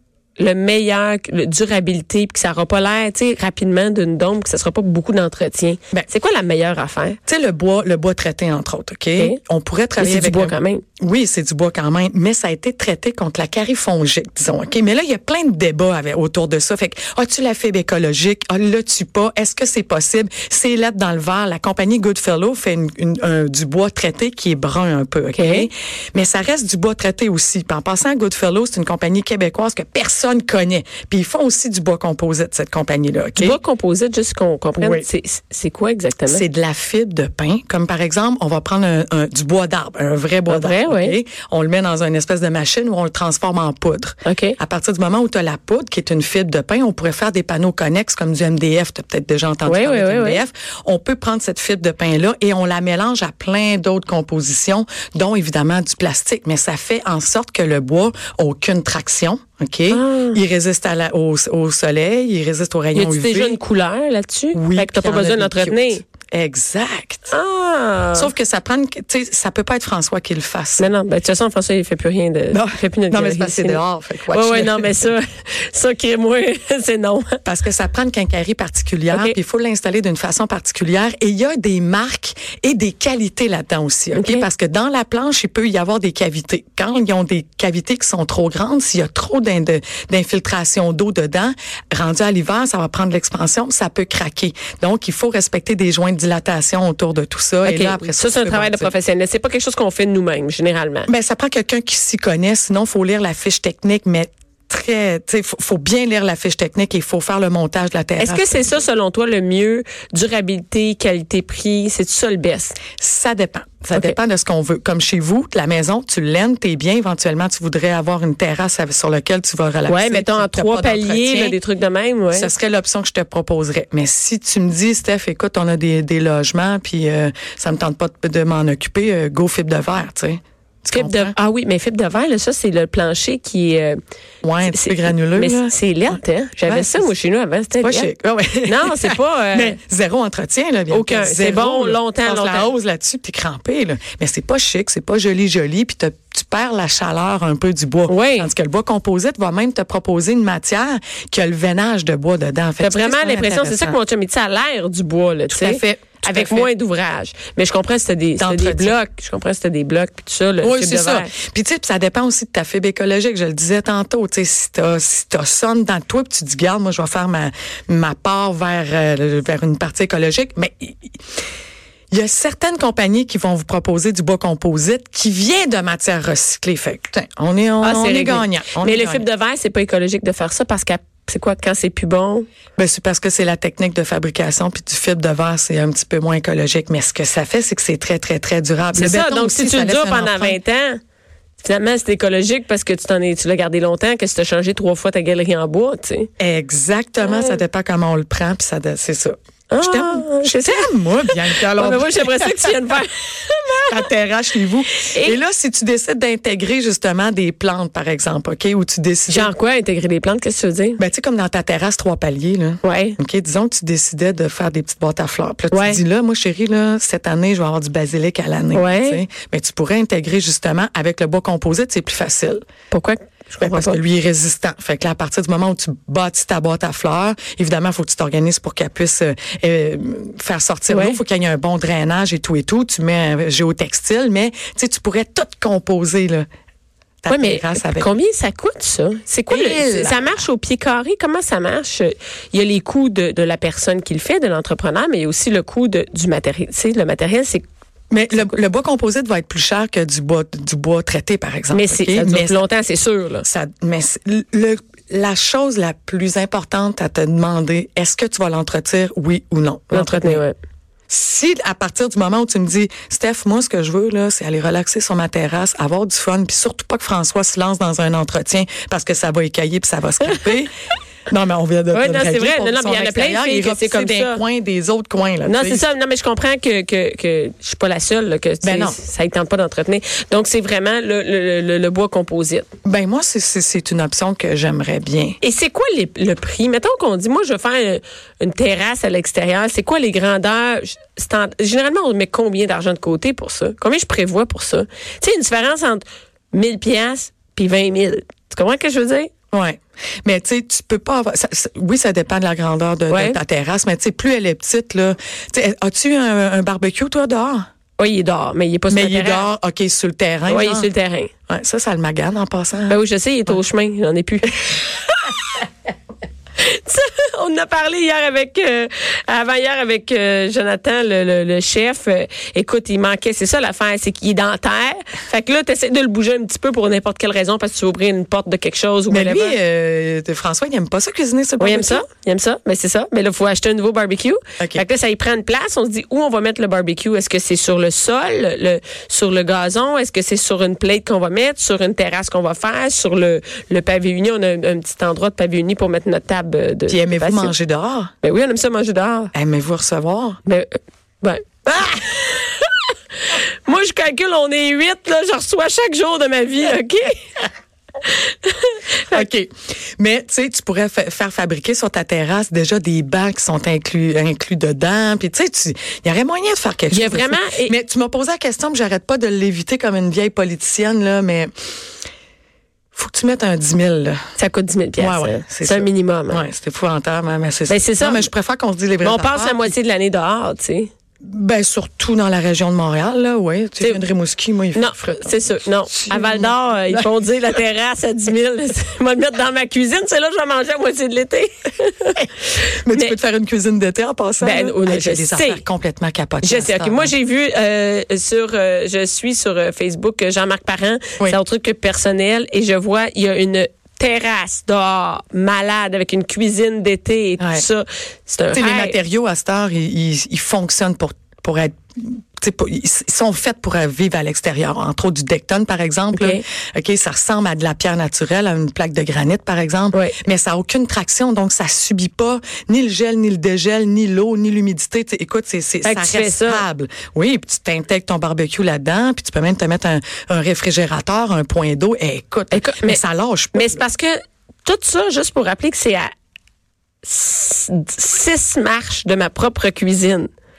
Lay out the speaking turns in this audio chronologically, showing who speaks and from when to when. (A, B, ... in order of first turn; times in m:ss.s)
0:00.4-0:07.2 A
0:07.2-0:33.6 B
0:10.0-0:10.8 A
0:25.3-0:25.7 A
0:33.4-0:36.4 A
0:34.8-0:35.0 B
0:36.2-1:03.6 B
0:40.5-0:41.2 A
0:44.2-0:44.6 A
0:49.6-0:50.4 A
0:59.9-1:00.4 A
1:02.9-1:06.0 A
1:04.5-1:07.3 B
1:07.3-1:08.3 A
1:08.1-1:10.9 B
1:10.8-1:17.4 A
1:12.5-1:15.1 B
1:17.4-1:38.9 B
1:19.1-1:19.4 A
1:24.1-1:24.5 A
1:37.6-1:41.1 A
1:41.1-1:48.8 B
1:48.2-1:52.8 A
1:53.0-2:01.6 B
1:59.9-2:02.5 A
2:02.3-2:11.3 B
2:10.9-2:14.0 A
2:14.4-2:17.1 B
2:14.6-2:18.1 A
2:17.8-2:34.0 B
2:18.6-2:19.8 A
2:20.9-2:22.7 A
2:28.1-2:28.5 A
2:32.8-2:41.3 A
2:35.5-2:36.7 B
2:38.4-2:39.0 B
2:40.6-2:51.2 B
2:52.1-2:59.2 B
2:57.8-3:02.4 A
3:02.8-3:10.6 B
3:08.9-3:11.0 A
3:11.6-3:16.3 A
3:16.4-3:22.8 B
3:17.2-3:17.6 A
3:19.7-3:24.0 A
3:23.8-3:29.5 B
3:25.0-3:25.4 A
3:29.3-3:31.0 A
3:31.0-3:42.6 B
3:32.8-3:33.2 A
3:35.7-3:36.0 A
3:38.7-3:39.2 A
3:42.9-3:44.0 A
3:43.6-3:56.4 B
3:50.9-3:51.2 A
3:57.2-3:58.1 B
3:57.3-4:07.6 A
3:59.5-4:00.4 B
4:08.1-4:12.7 B
4:08.3-4:08.6 A
4:11.7-4:13.5 A
4:13.4-4:20.4 B
4:19.9-4:20.6 A
4:21.1-4:30.7 B
4:31.3-4:35.9 B
4:31.9-4:34.4 A
4:35.4-4:42.7 A
4:38.6-4:39.0 B
4:42.8-4:45.4 B
4:45.4-4:59.3 A
4:59.5-5:07.6 B
5:03.1-5:03.4 A
5:08.0-5:09.5 A
5:08.9-5:10.9 B
5:10.5-5:11.3 A
5:11.5-5:13.6 B
5:12.9-5:15.6 A
5:16.6-5:29.6 A
5:29.1-5:32.0 B
5:31.6-5:47.5 A
5:34.6-5:34.8 B
5:46.9-5:48.1 B
5:48.2-5:49.3 A
5:49.3-5:50.4 B
5:50.4-5:57.3 A
5:58.0-5:59.2 A
5:59.1-6:11.5 B
6:06.9-6:07.7 A
6:12.9-6:14.2 B
6:14.4-6:16.4 A
6:15.0-6:19.7 B
6:17.7-6:18.3 A
6:19.0-6:20.9 A
6:21.2-6:27.6 B
6:23.8-6:24.1 A
6:24.7-6:33.2 A
6:32.8-6:37.1 B
6:34.4-6:35.6 A
6:36.4-6:49.0 A
6:47.4-6:47.6 B
6:48.5-7:13.8 B
6:56.1-6:56.4 A
7:05.8-7:06.6 A
7:12.5-7:13.0 A
7:13.5-7:16.1 A
7:17.0-7:20.3 A